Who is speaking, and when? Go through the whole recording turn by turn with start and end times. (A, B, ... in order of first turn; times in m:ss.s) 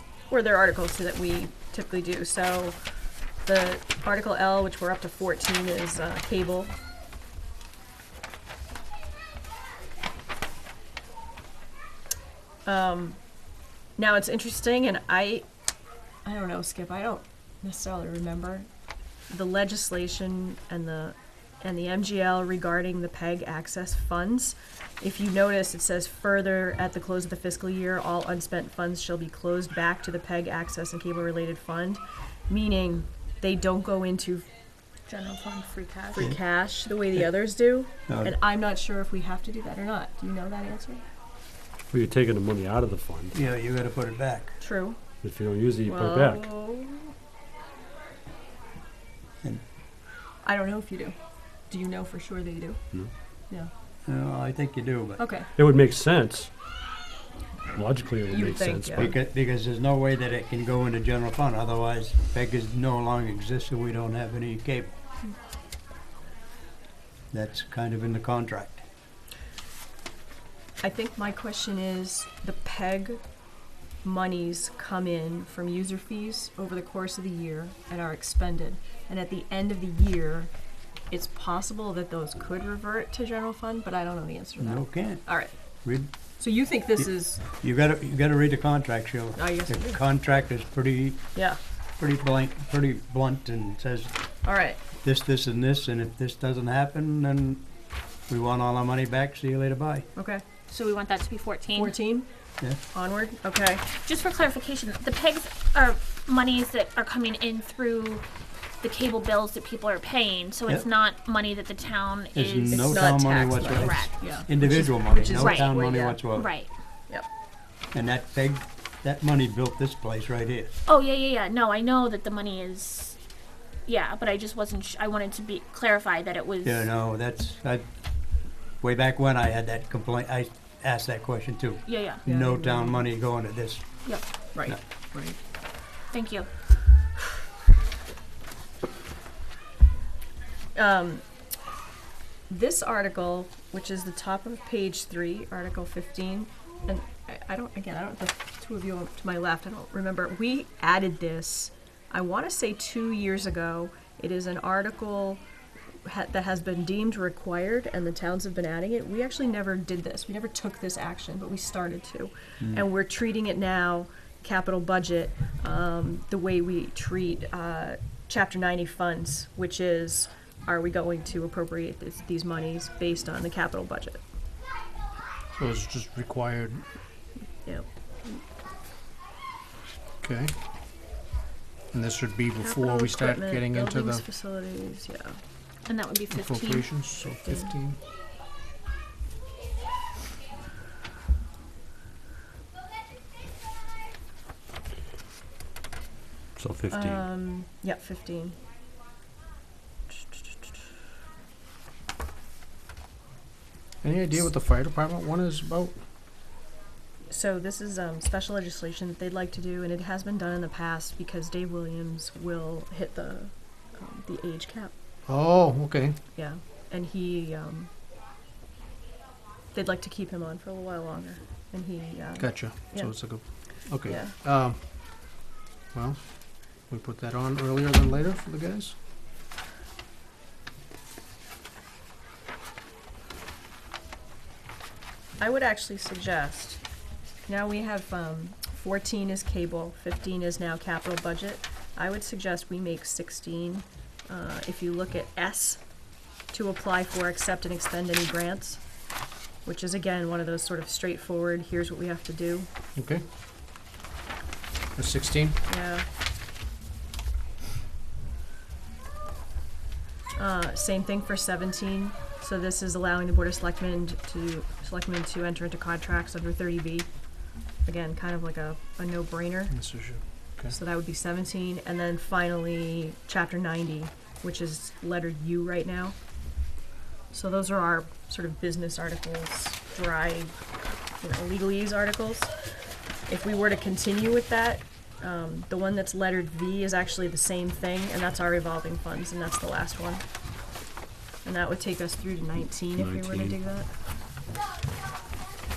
0:00.3-0:02.8 A
0:03.4-0:06.7 A
0:12.6-0:13.2 A
0:14.0-0:15.5 A
0:16.2-0:18.7 A
0:19.3-0:34.5 A
0:35.1-0:36.3 B
0:36.1-0:41.0 A
0:38.1-0:38.3 C
0:41.9-0:43.4 D
0:43.3-0:44.6 C
0:44.6-0:45.0 A
0:45.2-0:46.5 D
0:45.8-0:47.1 A
0:50.4-0:51.2 A
0:51.7-0:52.8 A
0:54.1-0:55.2 C
0:55.2-0:55.5 A
0:55.6-0:56.5 D
0:57.7-0:59.1 D
0:58.3-0:59.2 A
0:59.0-1:04.9 C
1:07.3-1:08.8 C
1:10.8-1:13.2 A
1:14.0-1:20.5 A
1:21.1-1:25.6 A
1:24.6-1:25.2 C
1:25.8-1:26.1 C
1:26.4-1:27.4 A
1:27.0-1:31.3 C
1:29.4-1:30.0 A
1:32.0-1:34.1 C
1:34.4-1:34.8 A
1:35.0-1:37.6 C
1:38.3-1:40.1 C
1:40.2-1:40.4 A
1:40.7-1:42.0 B
1:41.7-1:42.3 A
1:42.9-1:43.9 A
1:44.0-1:48.3 B
1:48.8-1:54.4 B
1:52.3-1:56.5 C
1:52.7-1:56.2 A
1:55.3-1:55.7 B
1:56.3-1:56.7 B
1:57.9-2:00.7 C
2:00.9-2:03.2 B
2:03.9-2:06.9 B
2:06.6-2:07.9 C
2:08.8-2:14.0 C
2:11.9-2:12.2 B
2:12.2-2:13.0 A
2:14.5-2:15.4 A
2:16.1-2:16.5 B
2:20.8-2:21.2 A
2:22.5-2:35.4 A
2:36.0-2:54.2 A
2:55.5-2:56.8 E
3:00.2-3:00.6 E
3:01.9-3:04.2 E
3:02.6-3:05.4 A
3:05.9-3:06.9 B
3:06.3-3:08.0 E
3:07.4-3:07.7 A
3:16.6-3:17.2 D
3:16.9-3:18.6 A
3:24.0-3:26.0 E
3:27.3-3:34.9 A
3:35.3-3:36.2 E
3:36.4-3:37.9 A
3:39.7-3:43.1 A
3:42.4-3:45.4 E
3:44.0-3:44.4 A
3:45.9-3:46.2 E
3:46.8-3:49.0 E
3:55.4-3:56.8 A
3:57.4-4:05.8 A
4:06.5-4:08.8 A
4:09.6-4:12.7 A
4:13.0-4:13.2 E
4:15.0-4:15.6 E
4:15.7-4:16.0 A
4:20.4-4:27.1 A
4:27.9-4:29.7 A
4:29.7-4:30.7 E
4:30.7-4:36.2 A
4:37.3-4:40.5 A
4:41.2-4:42.5 A
4:43.3-4:50.2 A
4:51.4-4:53.9 A
4:53.0-4:53.6 D